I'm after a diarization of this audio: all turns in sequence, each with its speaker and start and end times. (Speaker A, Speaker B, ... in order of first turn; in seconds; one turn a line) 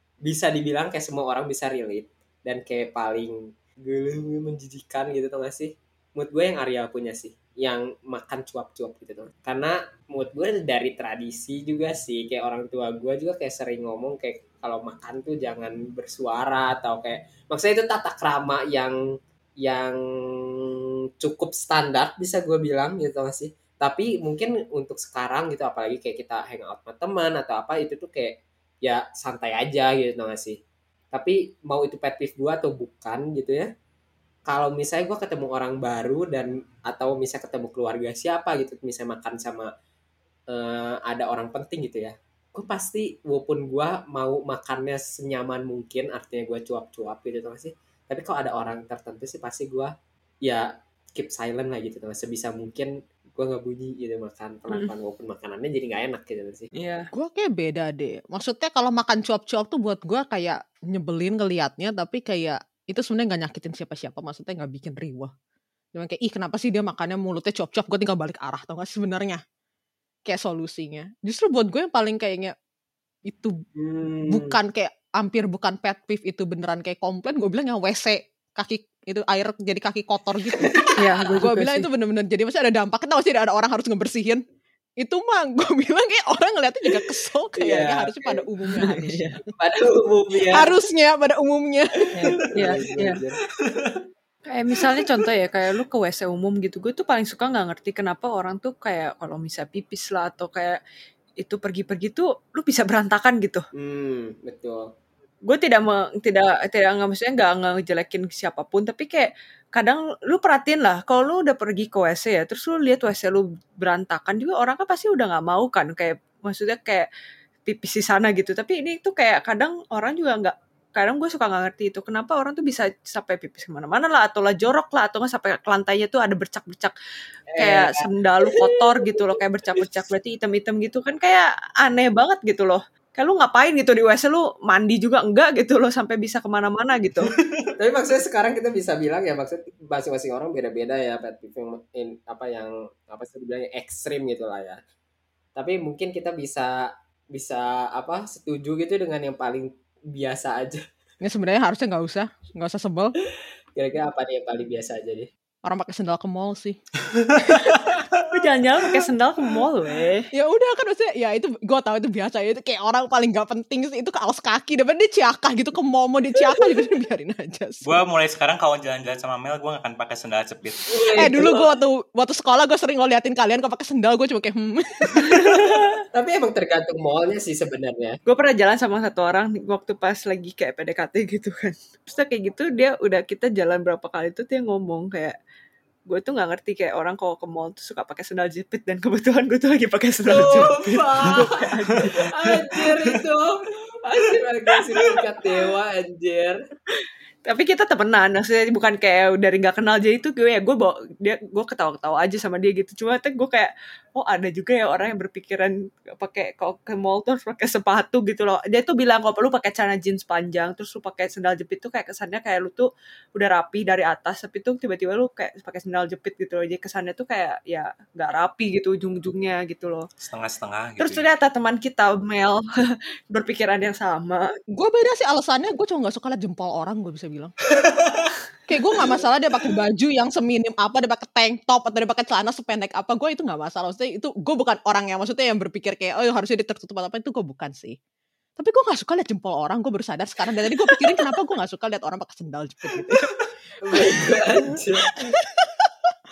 Speaker A: 0.2-19.0
Speaker A: 19.6-30.6
Speaker A: 31.1-33.7
Speaker A: 34.5-39.7
Speaker A: 40.5-49.9
Speaker A: 50.5-56.7
Speaker B: 56.8-57.1
Speaker C: 57.1-65.3
Speaker C: 65.9-69.4
Speaker C: 70.2-72.5
Speaker C: 73.3-73.6
Speaker A: 73.8-74.6
Speaker C: 74.3-84.4
Speaker B: 81.0-81.9
Speaker C: 85.0-89.4
Speaker A: 87.6-88.4
Speaker B: 88.7-89.4
Speaker A: 89.5-90.7
Speaker C: 90.5-92.4
Speaker B: 92.3-93.2
Speaker A: 92.4-93.4
Speaker D: 93.7-94.0
Speaker B: 94.5-100.8
Speaker D: 94.9-95.2
Speaker B: 101.4-103.7
Speaker A: 103.7-104.9
Speaker B: 105.5-117.1
Speaker B: 117.7-126.9
Speaker A: 127.5-129.3
Speaker B: 127.6-137.3
Speaker A: 137.8-144.8
Speaker A: 145.5-150.8
Speaker C: 151.2-153.1
Speaker A: 153.8-155.3
Speaker C: 155.6-156.8
Speaker B: 158.3-160.3
Speaker C: 160.3-168.0
Speaker D: 167.8-170.9
Speaker A: 170.9-171.7
Speaker C: 171.2-175.4
Speaker B: 175.2-175.9
Speaker A: 176.1-178.2
Speaker B: 178.2-185.3
Speaker B: 186.1-192.5
Speaker A: 190.3-191.4
Speaker A: 192.2-196.6
Speaker B: 197.0-220.1
Speaker D: 220.2-221.3
Speaker B: 221.0-224.5
Speaker C: 224.8-227.5
Speaker D: 227.8-228.3
Speaker C: 228.7-238.0
Speaker C: 238.6-243.3
Speaker A: 243.8-245.1
Speaker C: 245.3-245.9